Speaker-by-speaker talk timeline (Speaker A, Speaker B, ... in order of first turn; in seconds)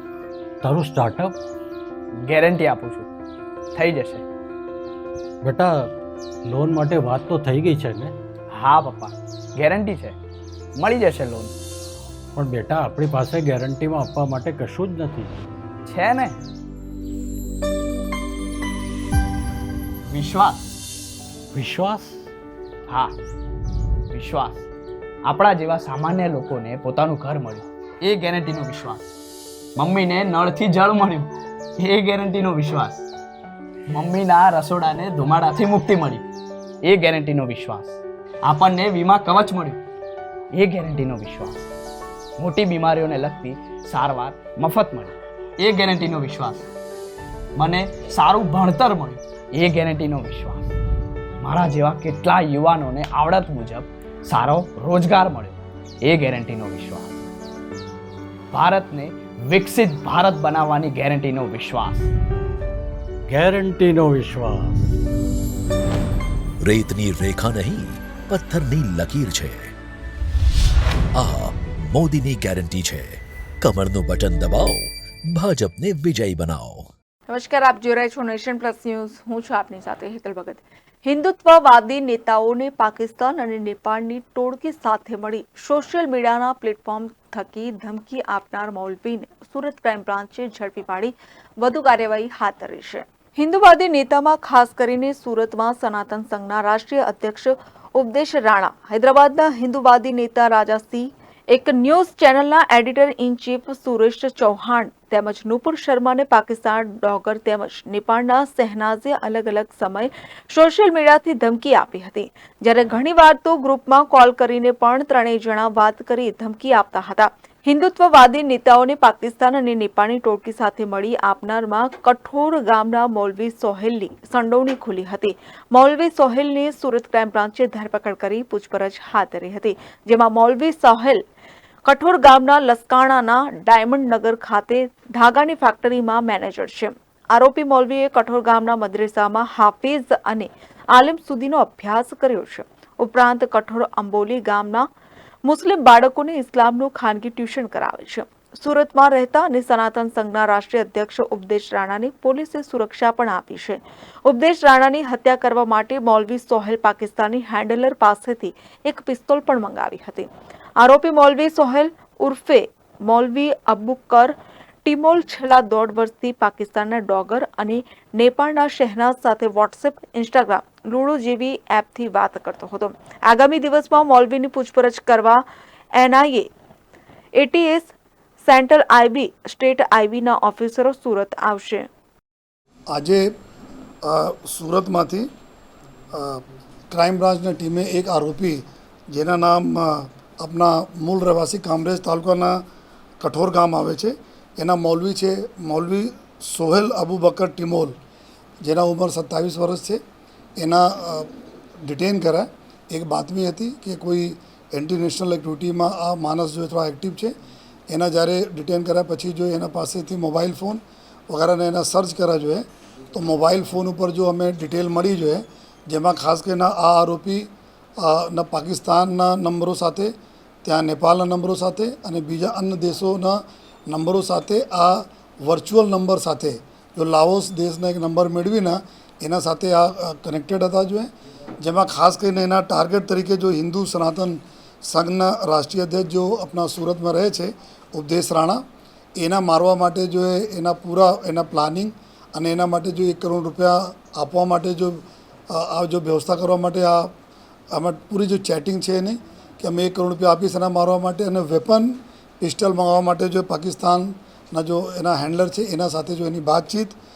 Speaker A: 0.6-1.4, 5.4-5.9, 6.5-8.2, 12.4-15.4, 21.5-22.3, 63.3-64.8
Speaker B: 2.3-3.1, 3.8-4.2, 8.5-10.2, 10.8-11.5, 15.9-16.4, 20.1-20.6, 24.1-24.7, 25.3-29.1, 29.8-33.1, 33.9-36.2, 36.9-39.8, 40.6-41.7, 42.4-46.7, 47.6-50.8, 51.4-57.2, 58.5-62.1
Speaker C: 66.6-69.7, 71.2-76.9
Speaker D: 77.3-131.2, 131.8-144.9, 145.4-160.3, 160.8-175.4, 176.0-176.5, 177.4-177.9, 178.4-181.9
Speaker E: 182.9-183.3, 184.0-185.3, 186.1-192.6, 193.2-197.9, 198.6-200.0, 200.6-201.3, 201.8-207.3, 207.9-231.1, 231.6-238.6, 239.2-247.1, 247.7-257.0